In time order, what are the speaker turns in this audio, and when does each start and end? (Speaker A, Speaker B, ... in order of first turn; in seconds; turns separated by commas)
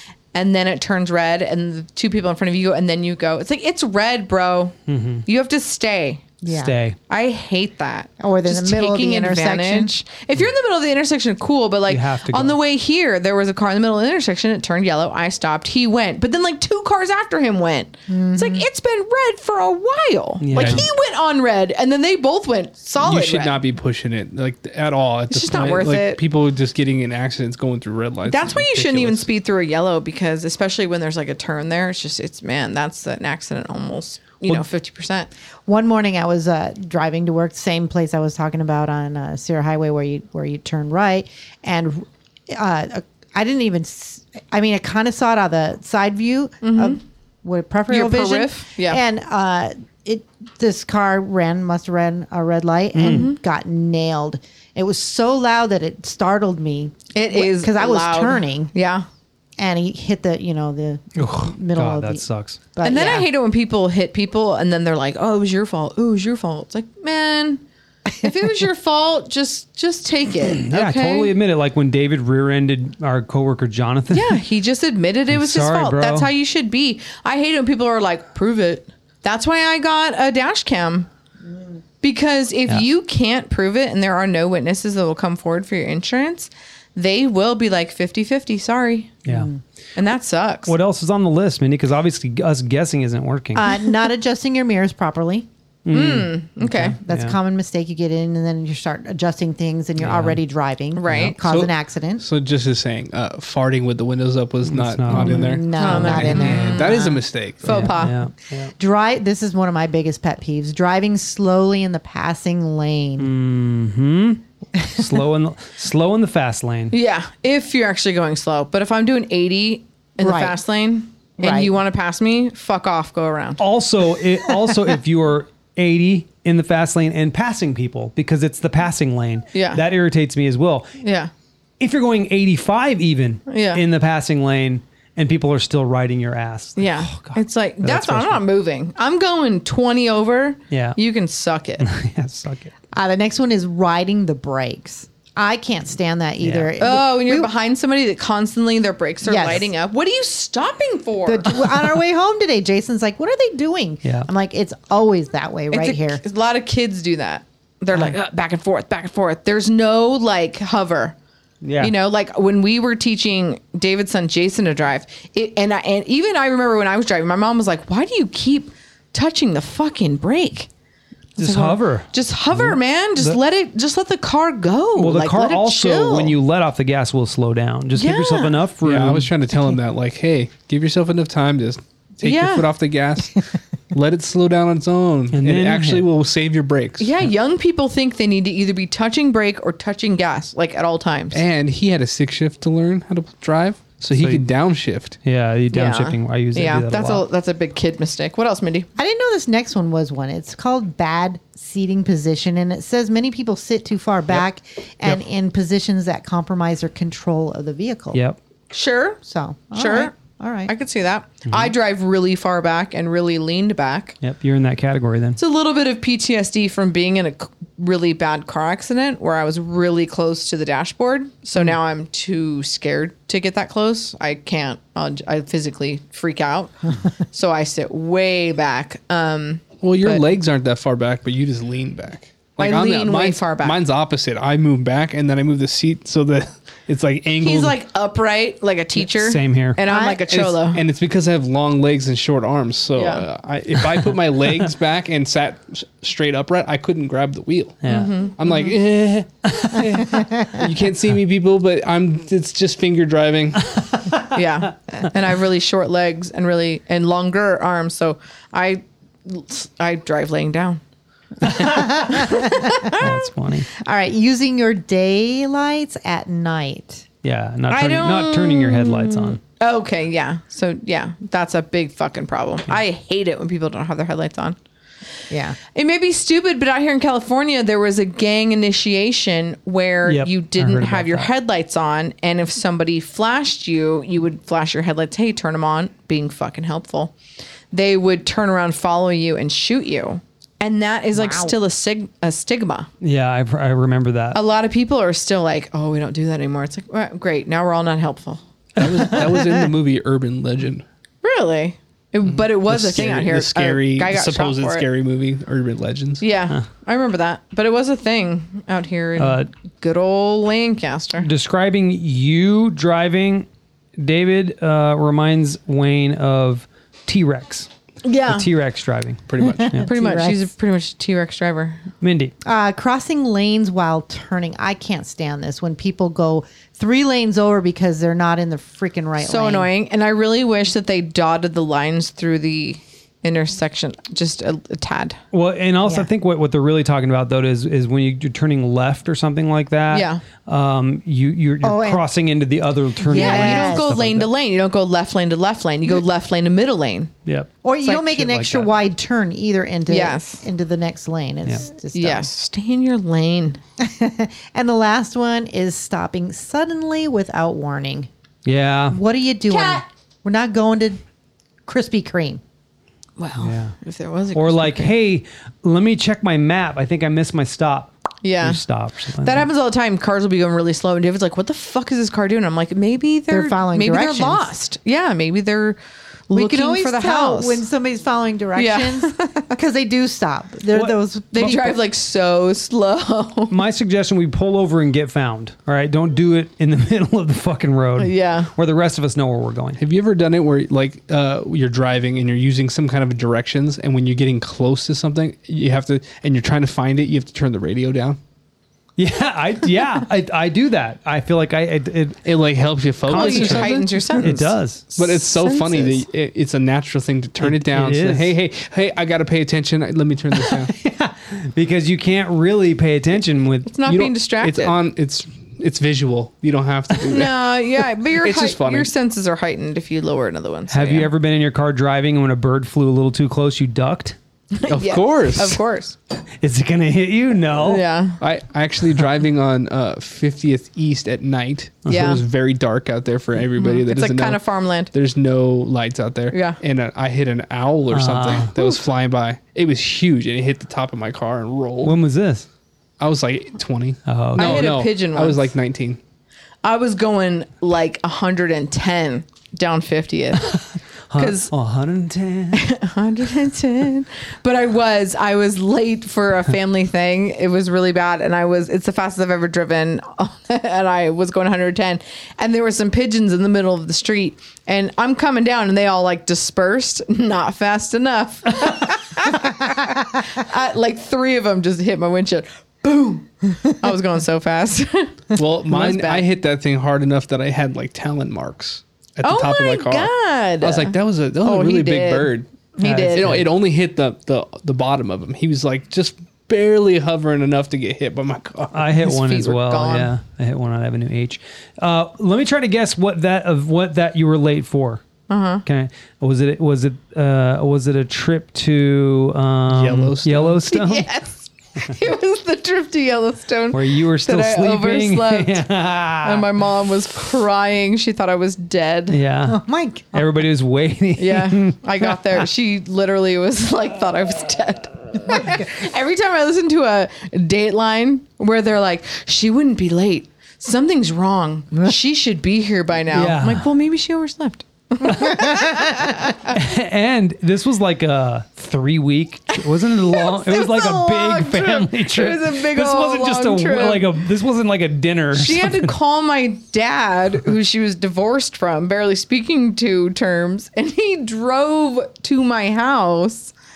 Speaker A: 0.3-4.7, Speaker B: 4.9-5.2, Speaker A: 5.2-6.3, Speaker C: 6.4-6.7, Speaker B: 6.5-7.0, Speaker A: 7.1-23.6, Speaker C: 8.2-9.9, Speaker B: 11.9-12.6, Speaker C: 18.1-18.6, Speaker B: 20.4-20.8, Speaker D: 20.5-20.9, Speaker D: 23.0-29.3, Speaker A: 25.3-26.2, Speaker A: 28.2-35.3, Speaker C: 35.6-58.7, Speaker A: 46.6-47.0, Speaker A: 47.9-49.0, Speaker B: 52.9-53.3, Speaker A: 53.0-53.4, Speaker A: 57.1-59.0, Speaker C: 59.6-63.3, Speaker B: 61.1-62.6, Speaker A: 62.8-67.6, Speaker A: 68.2-71.3, Speaker B: 70.5-74.4, Speaker A: 74.1-81.1, Speaker B: 75.3-76.3, Speaker A: 82.0-89.2, Speaker C: 89.2-89.6, Speaker A: 90.0-90.7, Speaker B: 90.7-93.7, Speaker C: 93.5-95.5, Speaker B: 95.8-97.3, Speaker A: 95.9-97.0, Speaker C: 97.0-102.2, Speaker B: 100.0-100.4, Speaker A: 100.9-101.4, Speaker B: 101.1-101.3, Speaker D: 101.4-107.9, Speaker B: 104.6-106.7, Speaker C: 105.1-107.1, Speaker A: 105.7-108.2, Speaker B: 107.6-108.7, Speaker C: 108.8-113.3, Speaker B: 113.2-116.9, Speaker C: 114.8-115.1, Speaker A: 116.9-123.6, Speaker C: 120.2-120.5, Speaker C: 121.4-121.7, Speaker B: 123.6-130.9, Speaker A: 129.5-129.8, Speaker A: 131.0-131.3, Speaker B: 131.8-138.4, Speaker A: 133.5-133.8, Speaker A: 136.8-141.8, Speaker B: 140.7-141.0, Speaker B: 141.8-142.7, Speaker C: 142.9-147.5, Speaker B: 146.4-146.7, Speaker A: 146.8-151.7, Speaker C: 149.2-149.7, Speaker C: 151.2-156.2, Speaker B: 154.0-154.3, Speaker A: 155.7-161.1, Speaker B: 161.6-161.9, Speaker A: 161.8-170.7, Speaker B: 171.4-173.4, Speaker A: 171.4-176.4, Speaker B: 175.0-179.3, Speaker A: 177.9-178.6, Speaker D: 178.8-187.1, Speaker A: 182.2-182.7, Speaker B: 185.3-186.1, Speaker A: 187.0-191.4, Speaker D: 191.3-195.2, Speaker B: 194.1-194.4, Speaker B: 195.2-197.2, Speaker A: 195.7-198.9, Speaker C: 198.9-208.2, Speaker A: 208.7-209.2, Speaker C: 209.2-210.7, Speaker A: 209.7-210.1, Speaker A: 210.7-214.2, Speaker B: 214.2-215.4, Speaker A: 215.4-230.2, Speaker D: 229.8-237.8, Speaker A: 232.6-233.8, Speaker A: 237.4-240.8, Speaker B: 239.0-239.8, Speaker C: 239.8-240.2, Speaker D: 240.3-253.7, Speaker A: 242.9-243.2, Speaker B: 243.8-244.1, Speaker B: 247.8-248.2, Speaker A: 247.9-248.4, Speaker B: 249.4-250.1, Speaker C: 250.1-250.6, Speaker B: 253.7-254.3, Speaker A: 254.3-260.8, Speaker A: 261.4-263.1, Speaker C: 261.6-262.9, Speaker B: 262.9-263.7, Speaker C: 263.8-267.1, Speaker B: 267.2-269.4, Speaker A: 267.7-274.6, Speaker C: 275.3-275.6, Speaker A: 275.7-287.1, Speaker B: 280.1-281.3, Speaker A: 287.7-292.9, Speaker C: 291.1-291.5, Speaker B: 293.0-294.4, Speaker A: 294.3-298.4, Speaker D: 298.8-300.8, Speaker B: 298.8-299.5, Speaker A: 301.2-304.9, Speaker D: 302.7-306.2, Speaker A: 306.2-311.3, Speaker B: 309.2-309.5, Speaker B: 311.2-313.5, Speaker B: 314.0-317.7, Speaker A: 318.0-318.5, Speaker B: 318.3-319.9, Speaker D: 319.3-319.7, Speaker C: 319.4-320.5, Speaker A: 319.8-321.9, Speaker B: 322.0-322.3, Speaker C: 322.4-329.7, Speaker A: 329.2-335.2, Speaker B: 335.3-344.3, Speaker A: 339.9-340.2, Speaker C: 341.6-342.1, Speaker C: 343.0-343.9, Speaker A: 343.1-347.1, Speaker B: 347.2-348.7, Speaker C: 347.6-352.3, Speaker A: 349.9-350.4, Speaker A: 351.9-353.6, Speaker C: 353.8-358.1, Speaker B: 358.4-359.0, Speaker C: 358.9-361.0, Speaker A: 359.5-359.8, Speaker C: 361.6-362.4, Speaker A: 363.2-364.9, Speaker B: 363.4-363.7, Speaker B: 364.3-369.5, Speaker A: 368.2-368.6, Speaker A: 369.2-375.8, Speaker C: 373.3-374.5, Speaker A: 376.3-377.6, Speaker C: 376.3-381.8, Speaker A: 378.6-379.5, Speaker B: 380.7-381.5, Speaker A: 381.3-383.5, Speaker B: 383.5-389.8, Speaker A: 388.0-388.5, Speaker D: 389.8-398.2, Speaker B: 399.0-402.2, Speaker D: 402.2-403.9, Speaker B: 403.0-404.9, Speaker A: 403.1-406.0, Speaker D: 404.9-410.7, Speaker B: 407.4-408.3, Speaker B: 410.3-413.7, Speaker A: 413.6-414.8, Speaker D: 413.9-418.9, Speaker A: 417.0-421.1, Speaker B: 420.7-424.1, Speaker A: 424.5-425.9, Speaker D: 424.7-425.6, Speaker B: 426.4-427.8, Speaker A: 427.6-428.2, Speaker D: 428.2-441.9, Speaker A: 431.9-432.2, Speaker A: 433.6-434.9, Speaker A: 436.3-436.6, Speaker B: 437.9-438.5, Speaker B: 441.8-442.4, Speaker D: 443.0-446.0, Speaker B: 444.1-444.8, Speaker A: 444.3-445.5, Speaker A: 446.6-450.6, Speaker B: 450.4-452.6, Speaker A: 451.1-451.5, Speaker A: 452.5-476.2, Speaker D: 475.4-480.1, Speaker A: 479.2-483.4, Speaker D: 480.6-488.9, Speaker B: 482.8-483.4, Speaker B: 488.7-495.0, Speaker A: 489.0-490.1, Speaker A: 495.3-495.6, Speaker B: 495.6-501.1, Speaker D: 499.7-500.7, Speaker A: 500.7-505.6, Speaker B: 503.7-506.5, Speaker A: 506.2-509.2, Speaker B: 509.1-509.6, Speaker C: 509.4-510.3, Speaker B: 510.1-512.4, Speaker A: 511.2-526.5, Speaker B: 523.1-523.7, Speaker B: 525.0-525.9, Speaker B: 526.4-535.9, Speaker A: 530.1-534.1, Speaker A: 535.3-543.5